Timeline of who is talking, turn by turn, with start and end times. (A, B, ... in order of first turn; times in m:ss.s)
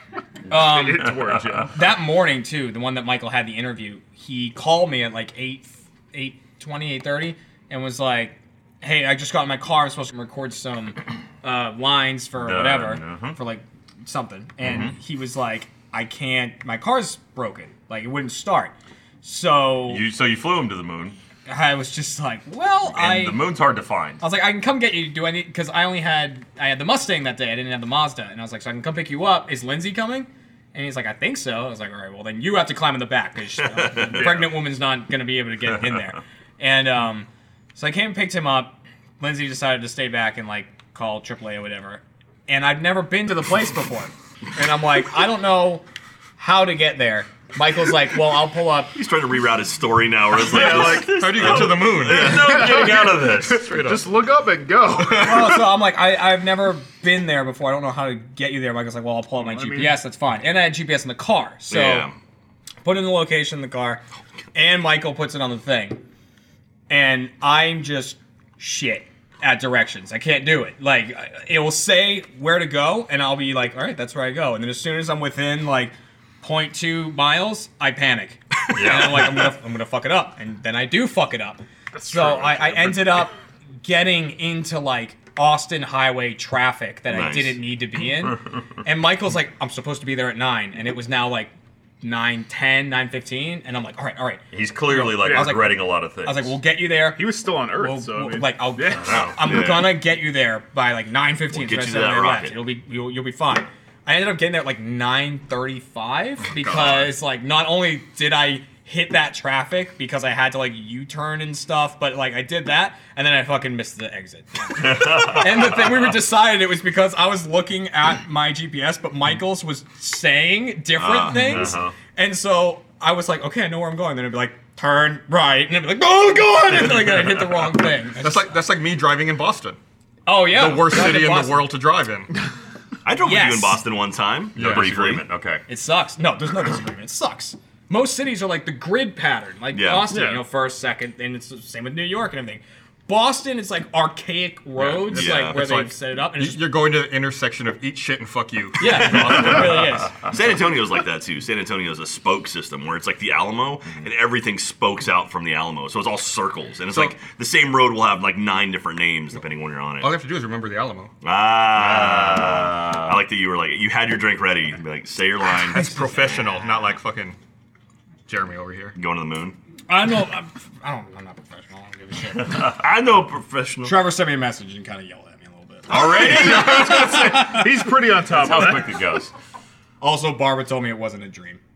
0:00.5-0:01.1 A
0:00.5-0:01.8 B
0:01.0-0:01.6 C
0:01.7-0:20.0 A
0:12.4-0:13.4 C
0:14.6-0:14.9 C
0:19.9-0:21.2 C
0:21.5-0:23.4 A
0:22.9-0:24.2 C
0:24.2-0:45.8 A
0:33.6-0:34.4 D
0:34.1-0:34.5 B
0:46.4-0:48.9 A
0:48.9-0:52.8 D
0:50.4-0:52.7 E
0:50.5-0:51.2 B
0:50.6-0:53.7 C
0:52.2-0:55.6 B
0:53.4-0:54.2 E
0:55.0-0:55.6 E
0:55.2-1:02.1 A
0:59.4-1:00.0 B
1:01.7-1:02.2 D
1:02.8-1:04.0 A
1:04.5-1:06.0 A
1:06.9-1:23.3 A
1:18.7-1:19.4 C
1:21.9-1:23.3 B
1:23.8-2:08.5 A
1:27.1-1:27.6 D
1:34.5-1:36.6 C
1:35.0-1:35.5 B
1:37.2-1:39.2 B
1:39.0-1:39.3 C
1:39.3-1:40.0 D
1:41.5-1:42.6 D
1:46.6-1:47.0 E
1:54.8-1:56.0 C
2:01.0-2:01.8 D
2:01.3-2:01.9 C
2:08.2-2:09.8 E
2:10.3-2:11.7 A
2:10.5-2:12.3 E
2:13.0-2:15.2 D
2:13.2-2:13.8 A
2:14.6-2:15.6 C
2:14.6-2:14.9 E
2:15.7-2:26.6 A
2:19.7-2:20.2 D
2:20.1-2:20.4 B
2:24.9-2:30.0 E
2:25.1-2:25.6 D
2:28.8-2:30.2 A
2:28.8-2:40.1 D
2:40.0-2:41.1 E
2:41.2-2:46.0 D
2:41.8-2:43.2 C
2:45.5-2:47.4 E
2:48.3-2:49.0 E
2:49.0-2:49.6 D
2:49.9-2:52.8 A
2:52.6-2:54.0 D
2:53.8-2:57.7 A
2:55.9-2:57.4 C
2:55.9-2:59.0 B
2:58.2-2:59.3 C
3:00.0-3:01.6 A